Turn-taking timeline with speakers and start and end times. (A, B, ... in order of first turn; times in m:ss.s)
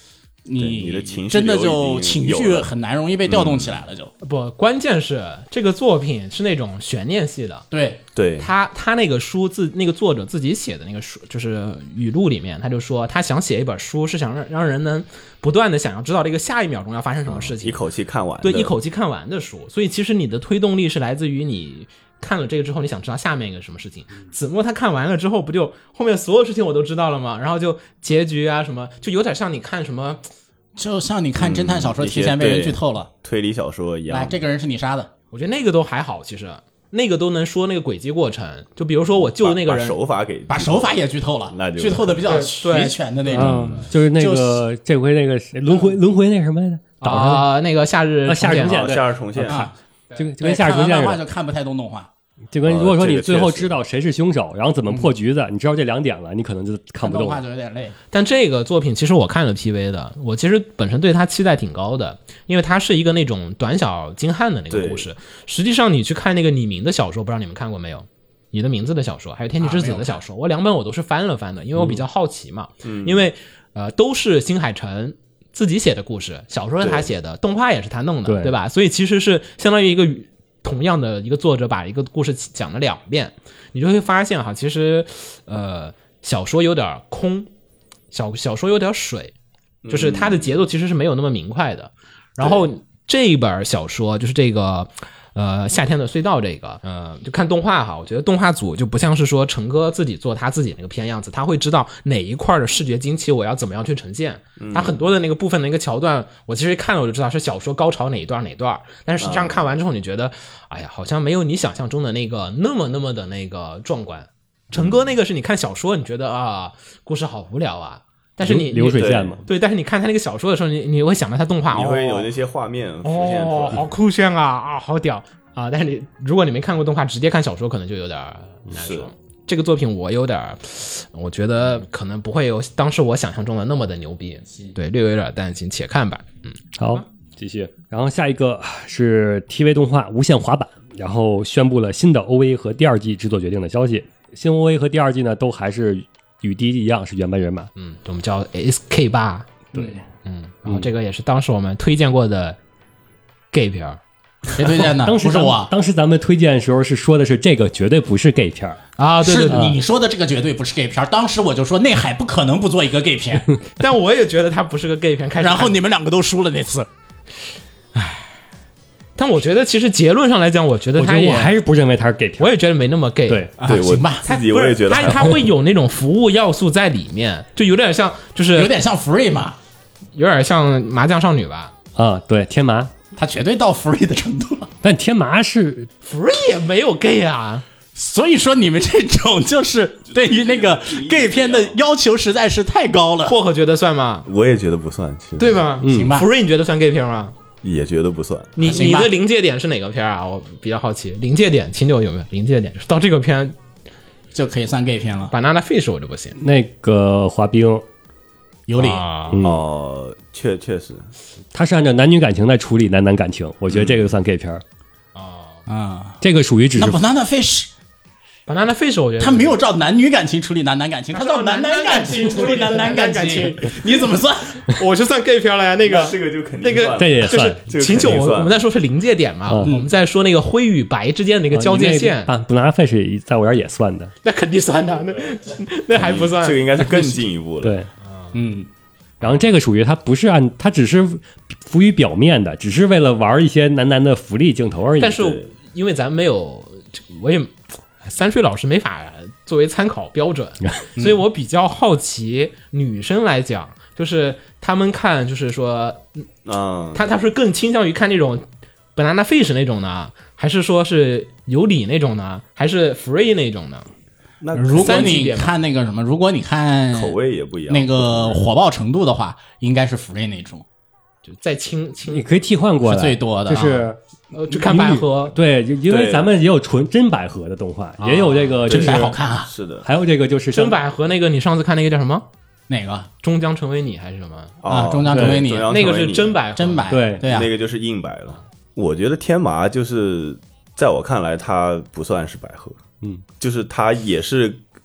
0:00.4-0:04.1 A
0:00.6-0:02.7 B
0:03.2-0:03.8 B
0:04.2-0:07.6 C
0:07.7-0:08.0 A
0:08.1-0:08.5 B
0:08.4-0:17.8 C
0:17.3-0:18.7 B
0:18.4-0:30.2 C
0:30.8-0:33.1 A
0:31.4-0:34.4 B
0:34.1-0:35.1 A
0:35.3-0:40.0 C
0:39.2-0:40.9 B
0:40.5-0:44.6 A
0:41.5-0:42.2 B
0:42.2-0:43.4 C
0:43.3-0:47.5 D
0:43.4-0:43.8 B
0:47.0-0:48.9 C
0:48.3-0:51.2 D
0:48.6-0:49.7 B
0:49.4-0:49.7 A
0:50.4-0:52.1 A
0:52.5-0:57.4 D
0:52.6-0:53.8 B
0:57.0-0:57.9 A
0:58.1-1:27.5 C
1:04.7-1:05.1 B
1:09.6-1:10.2 A
1:12.8-1:13.3 B
1:16.8-1:17.1 B
1:18.2-1:18.5 D
1:28.1-1:29.3 C
1:29.8-1:30.6 B
1:29.9-2:02.3 C
1:32.4-1:32.6 B
1:44.6-1:45.1 B
1:49.2-1:49.6 B
1:54.7-1:55.1 B
1:58.4-1:59.4 D
1:59.0-1:59.4 B
2:01.7-2:03.8 B
2:03.0-2:17.0 C
2:08.7-2:09.1 B
2:16.8-2:27.7 D
2:27.8-2:29.6 C
2:30.2-2:32.6 C
2:33.5-2:34.0 C
2:34.5-2:35.7 A
2:34.8-2:38.8 D
2:39.0-2:39.7 C
2:39.2-2:43.4 A
2:39.5-2:39.8 D
2:43.8-2:45.8 C
2:45.4-2:46.9 A
2:49.2-2:51.5 C
2:51.0-2:52.5 D
2:52.4-2:53.5 C
2:53.3-2:53.5 D
2:53.6-2:54.2 A
2:53.6-2:55.5 B
2:54.2-2:58.8 C
2:58.5-2:59.6 A
3:00.1-3:01.7 C
3:02.0-3:02.9 D
3:03.2-3:04.7 A
3:04.8-3:05.9 D
3:06.0-3:07.6 C
3:07.9-3:13.4 A
3:10.1-3:11.8 B
3:13.2-3:14.3 C
3:14.2-3:15.6 B
3:15.4-3:17.3 C
3:15.8-3:16.1 D
3:15.8-3:16.3 A
3:17.6-3:18.6 B
3:18.6-3:23.6 C
3:18.6-3:19.1 A
3:24.3-3:25.3 A
3:25.3-3:26.4 C
3:26.4-3:27.8 D
3:28.7-3:29.0 A
3:28.8-3:29.4 C
3:29.3-3:29.6 D
3:29.4-3:31.1 B
3:31.5-3:34.6 D
3:33.7-3:34.1 B
3:35.1-3:35.6 C
3:35.7-3:36.2 A
3:36.2-3:37.0 D
3:36.7-3:37.7 A
3:38.5-3:39.6 C
3:39.2-3:44.7 A
3:41.1-3:43.9 C
3:44.6-3:52.3 C
3:45.8-3:48.6 B
3:47.0-3:47.6 D
3:49.5-3:49.7 D
3:51.5-3:54.1 D
3:54.2-3:57.2 C
3:55.9-3:57.8 B
3:57.6-3:57.9 D
3:58.3-3:58.7 A
3:59.2-4:05.4 D
4:05.0-4:16.2 C
4:16.4-4:17.0 B
4:16.9-4:23.9 C
4:24.4-4:25.2 B
4:24.5-4:27.2 A
4:24.7-4:25.5 C
4:26.9-4:28.4 B
4:27.7-4:30.6 A
4:31.2-4:32.3 C
4:32.1-4:34.0 D
4:32.8-4:33.9 A
4:34.3-4:35.3 C
4:34.5-4:39.2 D
4:35.9-4:36.3 B
4:38.0-4:38.4 C
4:38.4-4:39.5 A
4:38.7-4:39.8 B
4:39.8-4:40.8 D
4:40.5-4:42.2 C
4:42.7-4:43.1 A
4:43.2-4:44.6 C
4:44.6-4:46.4 B
4:44.6-4:45.7 A
4:45.1-4:45.4 D
4:45.7-4:46.9 C
4:46.5-4:47.5 A
4:46.9-4:47.2 D
4:47.2-4:52.8 B
4:53.4-4:54.6 B